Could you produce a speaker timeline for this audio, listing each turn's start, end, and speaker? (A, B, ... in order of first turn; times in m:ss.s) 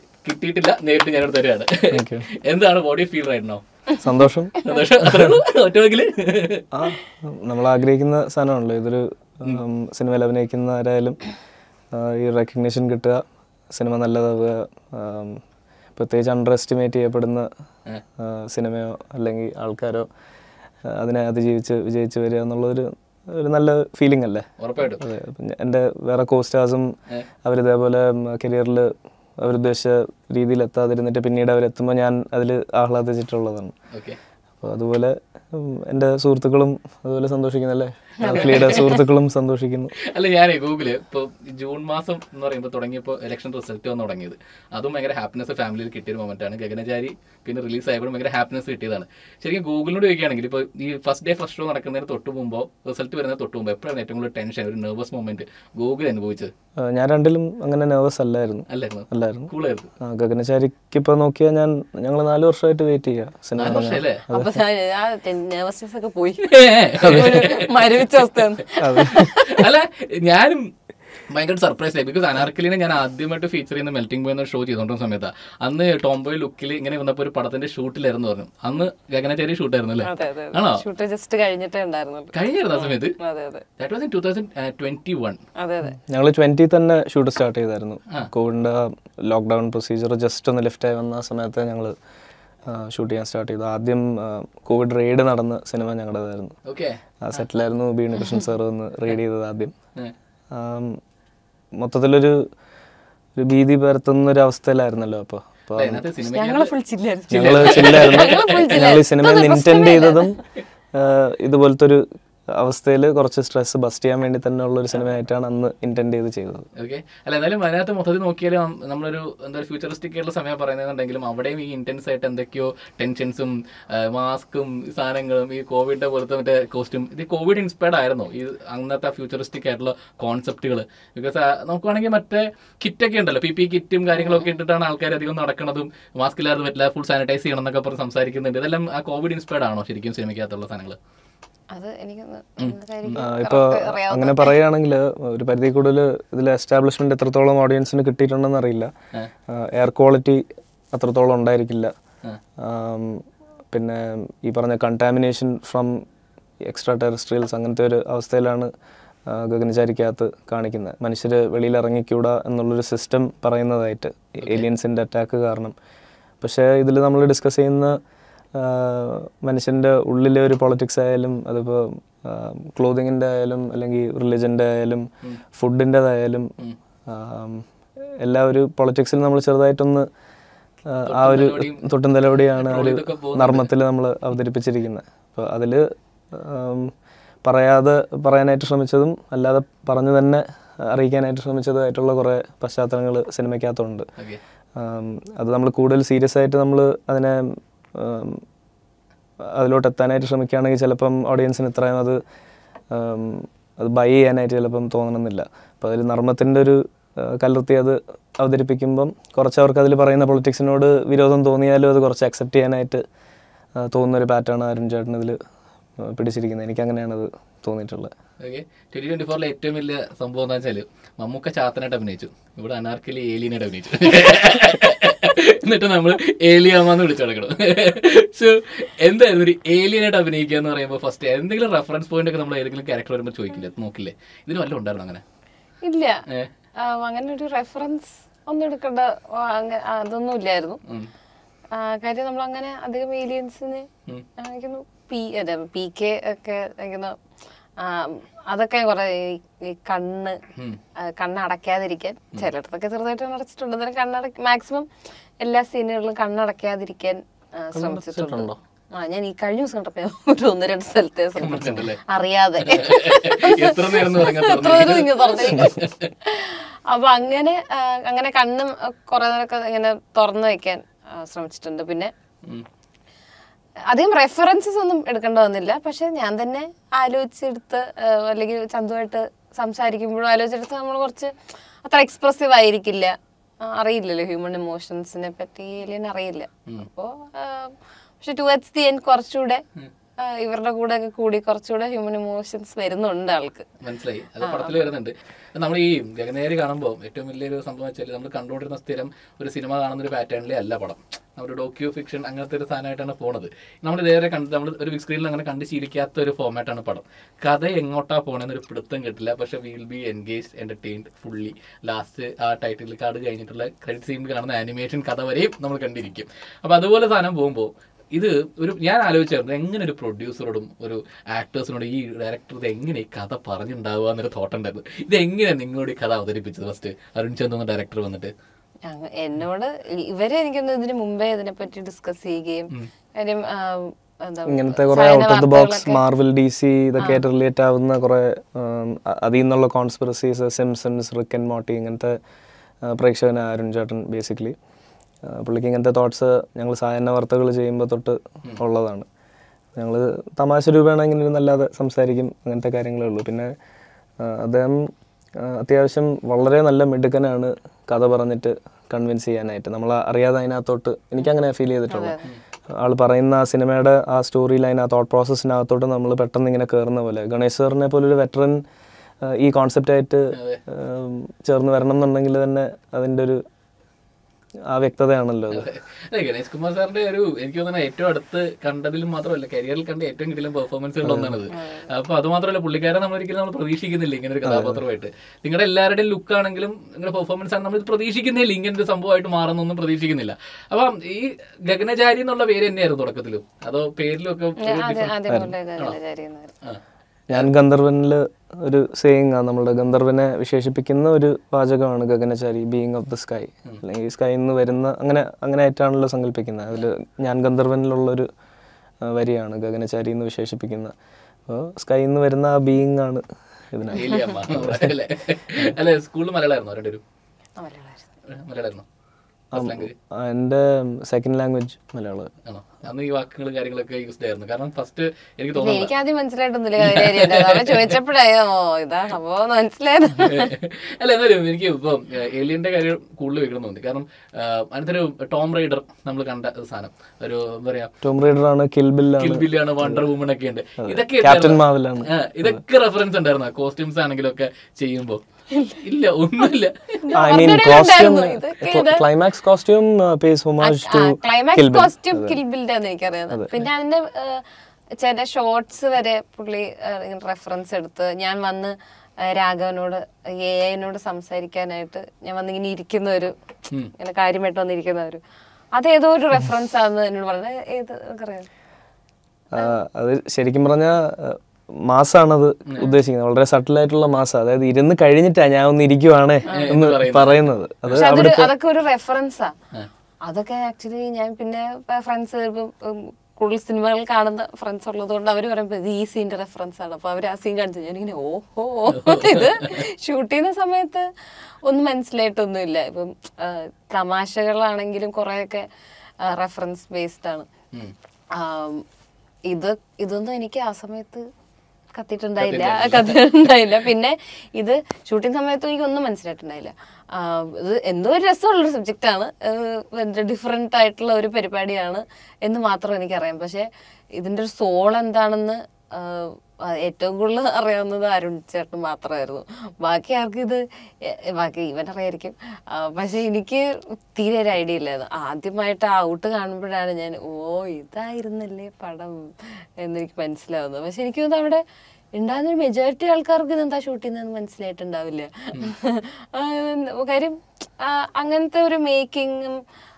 0:00.2-0:03.6 A
0:01.9-0:02.3 B
0:04.0-0:05.3 B
0:04.6-0:06.6 A
0:06.7-0:11.2 B
0:11.9-0:15.4 B
0:16.0-0:17.5 B
0:18.2-0:20.1 B
0:20.8-0:26.9 B
0:24.6-0:25.0 A
0:27.4-0:33.7 B
0:33.9-0:34.2 A
0:34.6-0:39.9 B
0:38.2-0:39.0 C
0:38.3-0:38.9 A
0:40.0-0:56.5 A
0:56.8-1:04.6 B
0:58.7-0:59.9 A
1:03.6-1:04.2 A
1:03.6-1:09.7 C
1:06.4-1:08.1 A
1:07.0-1:07.4 B
1:08.8-1:09.4 B
1:09.0-1:10.7 A
1:11.3-1:20.8 A
1:20.0-1:23.6 C
1:22.3-1:23.1 A
1:23.8-1:25.4 A
1:25.6-1:26.0 C
1:26.0-1:31.9 B
1:32.6-1:36.6 B
1:36.6-1:37.0 A
1:37.2-1:39.7 B
1:40.5-1:41.0 B
1:41.8-1:42.5 B
1:43.4-1:46.0 B
1:45.8-1:46.7 A
1:46.2-1:50.4 C
1:47.3-1:50.4 B
1:47.3-1:48.9 A
1:50.9-1:56.7 B
1:56.8-2:21.0 A
2:14.1-2:14.5 C
2:21.7-2:24.6 C
2:22.6-2:23.2 A
2:23.2-2:28.9 B
2:29.5-2:31.9 B
2:32.6-2:36.0 B
2:36.6-2:38.7 B
2:39.3-2:45.7 B
2:46.4-2:48.0 B
2:48.5-2:56.5 B
2:57.1-2:57.7 B
2:58.2-3:00.1 B
3:00.9-3:06.9 B
3:01.1-3:01.8 A
3:02.6-3:03.7 A
3:07.4-3:14.1 B
3:14.8-3:18.4 B
3:19.5-3:22.2 B
3:22.9-3:33.0 B
3:33.8-3:35.4 B
3:36.0-3:38.1 B
3:38.4-3:55.2 A
3:55.8-3:56.2 C
3:56.8-4:00.8 C
4:01.7-4:07.2 C
4:07.8-4:10.4 C
4:11.0-4:14.9 C
4:15.4-4:32.1 C
4:17.7-4:18.6 B
4:21.4-4:22.0 A
4:22.6-4:26.1 A
4:33.9-4:49.6 C
4:50.2-4:53.7 C
4:53.8-5:28.3 A
4:54.4-4:54.9 C
5:28.8-5:36.0 C
5:34.5-5:42.2 B
5:42.8-5:44.6 B
5:45.2-5:49.0 B
5:49.8-5:53.5 B
5:54.2-6:02.1 B
6:01.9-6:02.3 C
6:02.7-6:08.6 B
6:09.2-6:13.4 B
6:10.3-6:10.6 A
6:14.7-6:15.7 B
6:15.5-6:35.2 A
6:21.0-6:21.4 B
6:21.5-6:21.9 C
6:24.4-6:24.8 B
6:34.6-6:36.5 C
6:37.3-6:48.3 B
6:49.0-6:50.9 B
6:51.5-6:54.9 B
6:53.9-6:57.0 A
6:53.9-6:54.4 C
6:57.6-6:58.1 C
6:58.3-6:58.8 A
6:59.5-7:02.3 B
6:59.5-6:59.9 A
7:02.4-7:05.9 A
7:05.5-7:10.5 C
7:06.8-7:08.0 A
7:10.2-7:17.9 A
7:18.0-7:20.0 B
7:19.2-7:25.2 A
7:20.8-7:22.6 B
7:25.5-7:25.8 C
7:25.8-7:27.0 A
7:27.0-7:29.1 C
7:27.1-7:32.4 B
7:30.6-7:43.3 C
7:43.9-7:45.2 C
7:45.7-7:48.5 C
7:49.5-7:58.5 B
7:56.5-7:56.8 C
7:56.5-7:58.0 A
7:58.0-7:59.5 C
8:00.2-8:11.1 C
8:08.9-8:09.8 A
8:11.6-8:15.7 C
8:16.2-8:17.5 C
8:18.3-8:18.8 C
8:19.5-8:21.3 C
8:21.9-8:51.6 C
8:22.4-8:23.2 A
8:52.1-8:59.6 C